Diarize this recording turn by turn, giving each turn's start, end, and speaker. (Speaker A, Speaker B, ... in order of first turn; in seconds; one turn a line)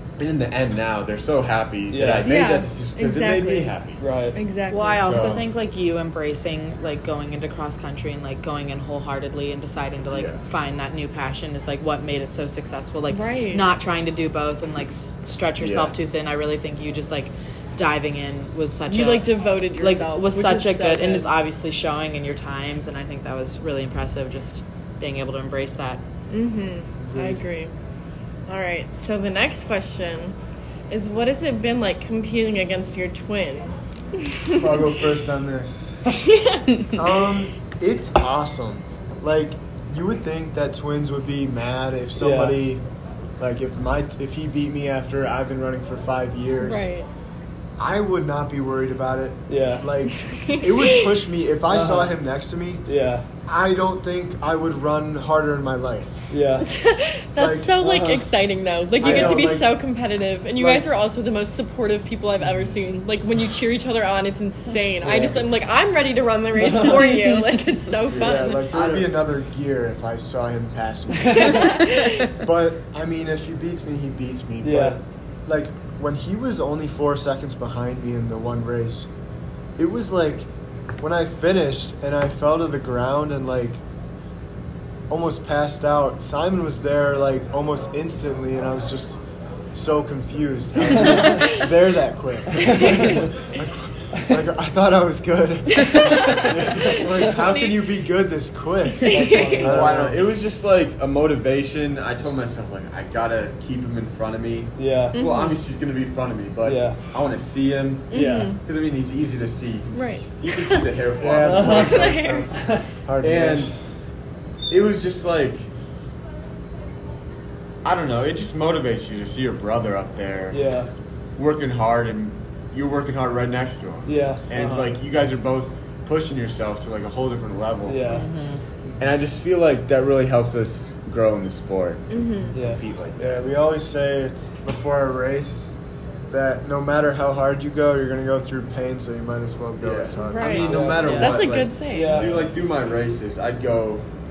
Speaker A: 0.2-4.0
Speaker B: 1.9-2.4
Speaker C: 2.1-3.7
Speaker B: 4.0-4.4
Speaker C: 4.3-5.4
Speaker D: 4.7-26.0
Speaker A: 5.0-5.5
Speaker A: 10.1-10.4
Speaker C: 13.1-13.7
Speaker A: 15.6-15.9
Speaker C: 18.9-21.3
Speaker C: 26.3-27.7
Speaker B: 27.1-27.4
Speaker C: 28.5-30.3
Speaker C: 30.9-34.8
Speaker E: 34.5-36.2
Speaker C: 36.1-36.9
Speaker E: 36.9-42.8
Speaker B: 42.2-42.6
Speaker E: 43.4-46.9
Speaker C: 46.6-47.1
Speaker E: 47.8-52.8
Speaker B: 49.5-49.9
Speaker C: 50.1-51.1
Speaker B: 51.7-52.2
Speaker B: 52.8-53.2
Speaker E: 53.5-56.3
Speaker B: 56.3-56.7
Speaker C: 56.6-68.6
Speaker E: 57.4-57.8
Speaker B: 57.8-58.2
Speaker B: 59.0-59.5
Speaker E: 59.0-59.7
Speaker E: 60.6-60.9
Speaker B: 65.0-65.5
Speaker B: 66.6-67.1
Speaker E: 68.1-79.1
Speaker A: 68.7-69.1
Speaker B: 71.2-71.6
Speaker C: 71.3-72.3
Speaker B: 74.6-75.0
Speaker E: 79.8-83.8
Speaker E: 85.1-89.2
Speaker E: 89.7-100.1
Speaker B: 91.0-91.5
Speaker B: 92.6-93.2
Speaker C: 95.7-97.9
Speaker A: 96.5-97.1
Speaker C: 99.0-99.8
Speaker B: 99.0-100.3
Speaker A: 99.6-112.4
Speaker B: 104.8-105.2
Speaker C: 105.1-105.6
Speaker B: 106.6-107.0
Speaker C: 108.1-108.6
Speaker B: 108.1-108.5
Speaker C: 109.9-110.9
Speaker E: 111.2-112.5
Speaker B: 111.4-112.9
Speaker C: 111.7-112.5
Speaker E: 113.0-113.7
Speaker A: 113.2-113.7
Speaker A: 114.7-115.7
Speaker A: 117.8-120.6
Speaker B: 120.5-120.9
Speaker A: 121.3-128.1
Speaker B: 124.0-124.9
Speaker B: 127.8-128.2
Speaker D: 128.1-128.6
Speaker A: 129.0-133.4
Speaker C: 132.1-132.5
Speaker B: 132.5-132.8
Speaker E: 133.2-135.7
Speaker E: 136.3-141.1
Speaker A: 139.8-144.1
Speaker C: 140.3-142.3
Speaker B: 140.6-142.5
Speaker D: 141.0-141.4